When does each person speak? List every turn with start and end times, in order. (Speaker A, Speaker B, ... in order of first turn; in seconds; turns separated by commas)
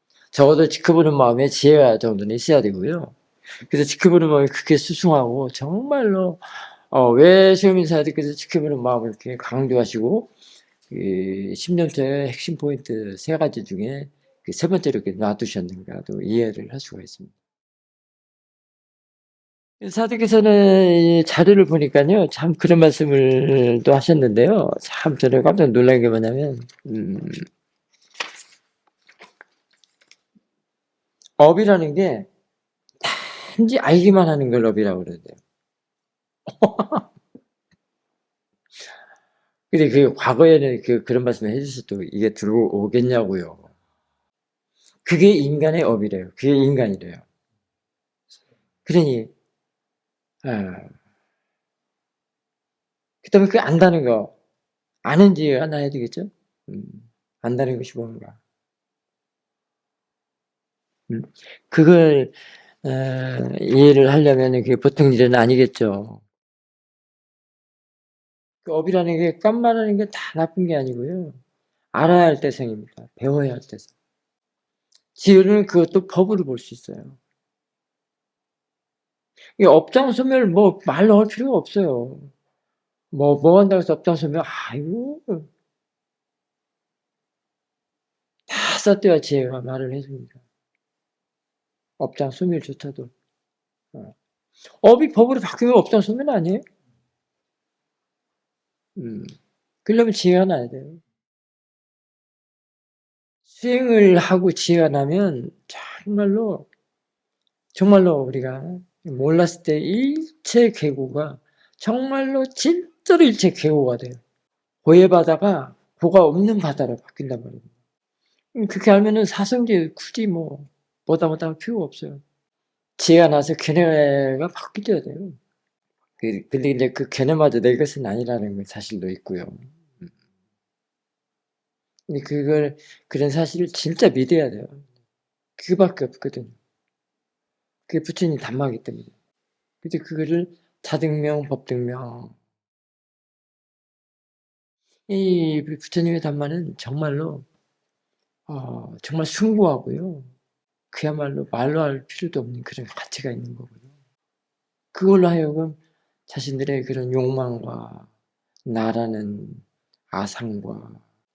Speaker A: 0.3-10.3, Speaker A: 10.9-17.3, Speaker A: 19.8-27.4, Speaker A: 31.4-32.3, Speaker A: 33.0-35.4, Speaker A: 36.5-37.1, Speaker A: 39.7-43.7, Speaker A: 45.0-47.2, Speaker A: 48.9-49.3, Speaker A: 50.4-50.9, Speaker A: 53.2-54.3, Speaker A: 55.0-58.4, Speaker A: 61.1-66.2, Speaker A: 68.7-71.4, Speaker A: 71.9-73.9, Speaker A: 75.2-77.2, Speaker A: 79.6-82.3, Speaker A: 83.1-85.5, Speaker A: 88.5-90.4, Speaker A: 92.0-93.1, Speaker A: 94.8-96.6, Speaker A: 99.0-99.3, Speaker A: 99.8-101.0, Speaker A: 103.5-106.7, Speaker A: 107.8-114.2, Speaker A: 114.8-117.7, Speaker A: 118.5-122.2, Speaker A: 123.0-125.4, Speaker A: 126.2-130.1, Speaker A: 132.1-134.9, Speaker A: 135.6-136.6, Speaker A: 137.9-139.1, Speaker A: 139.8-142.4, Speaker A: 145.1-147.5, Speaker A: 148.5-150.3, Speaker A: 150.9-153.8, Speaker A: 154.9-158.1, Speaker A: 158.7-161.0